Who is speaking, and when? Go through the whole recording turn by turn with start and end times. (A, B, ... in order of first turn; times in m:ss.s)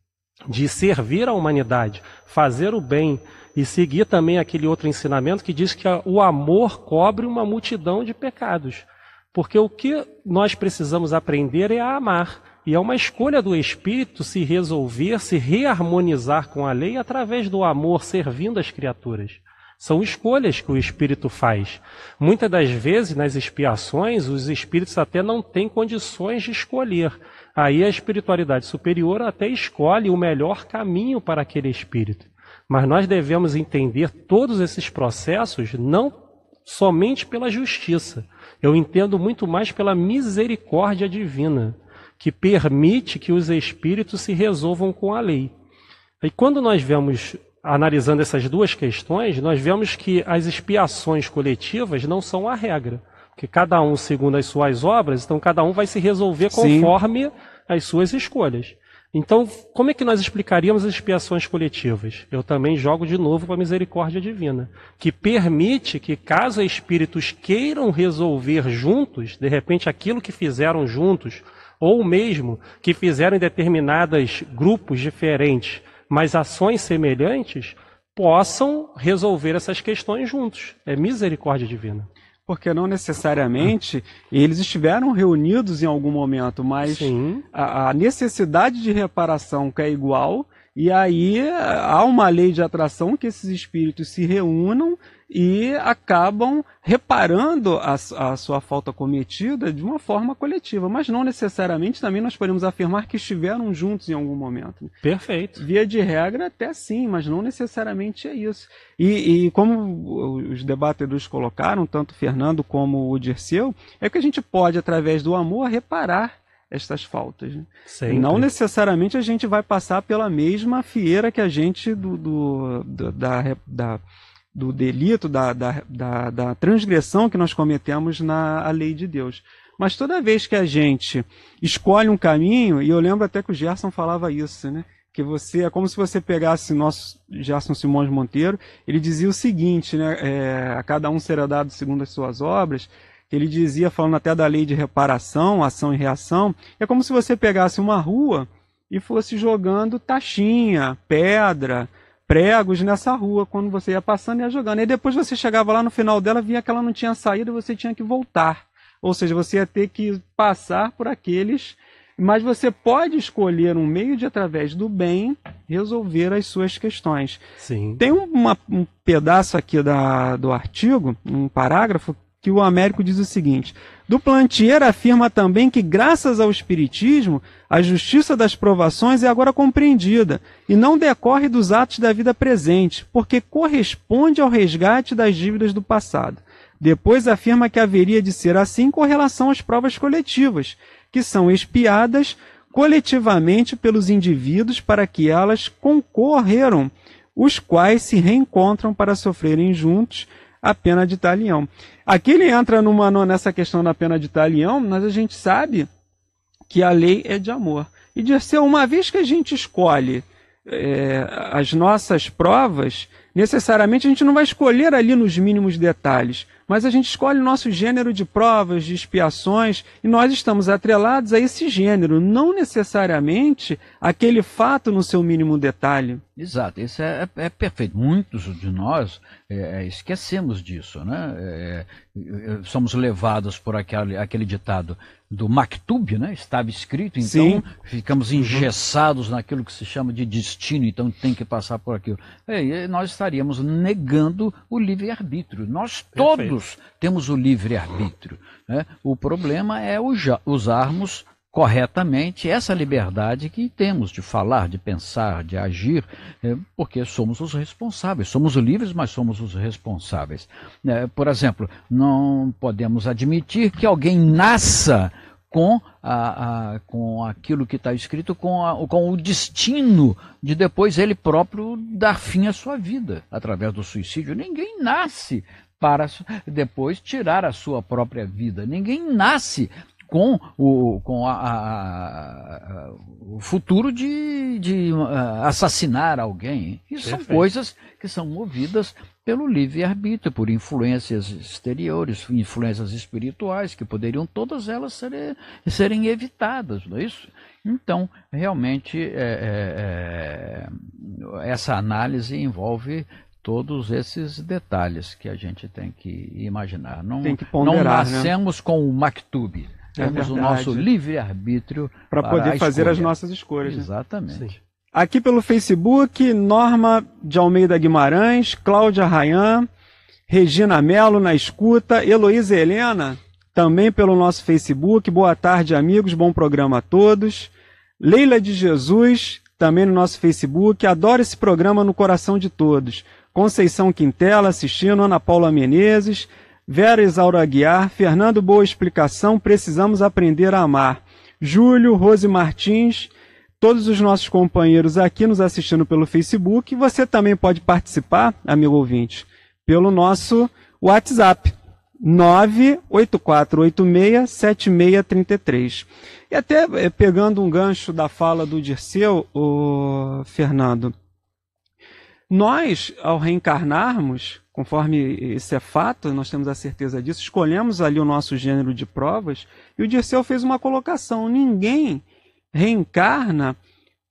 0:00.5-0:36.1 A
0:36.6-0:45.5 A
0:46.2-1:22.1 A
0:56.5-0:56.9 B
1:22.5-1:44.9 B
1:26.8-1:27.4 A
1:45.0-1:45.6 A
1:45.6-2:04.0 B
1:57.9-1:58.4 A
2:04.5-2:47.4 B
2:47.6-2:48.0 A
2:48.0-3:25.9 B
3:26.7-3:46.2 B
3:46.4-5:14.5 C
3:57.2-3:57.6 B
3:58.4-3:58.7 A
4:06.2-4:06.6 A
4:47.0-4:47.4 A
5:07.2-5:08.3 B
5:10.0-5:10.4 A
5:10.0-5:10.8 B
5:12.1-5:13.9 B
5:14.3-5:14.6 A
5:14.9-5:19.7 B
5:20.3-6:00.9 B
6:02.3-6:13.6 B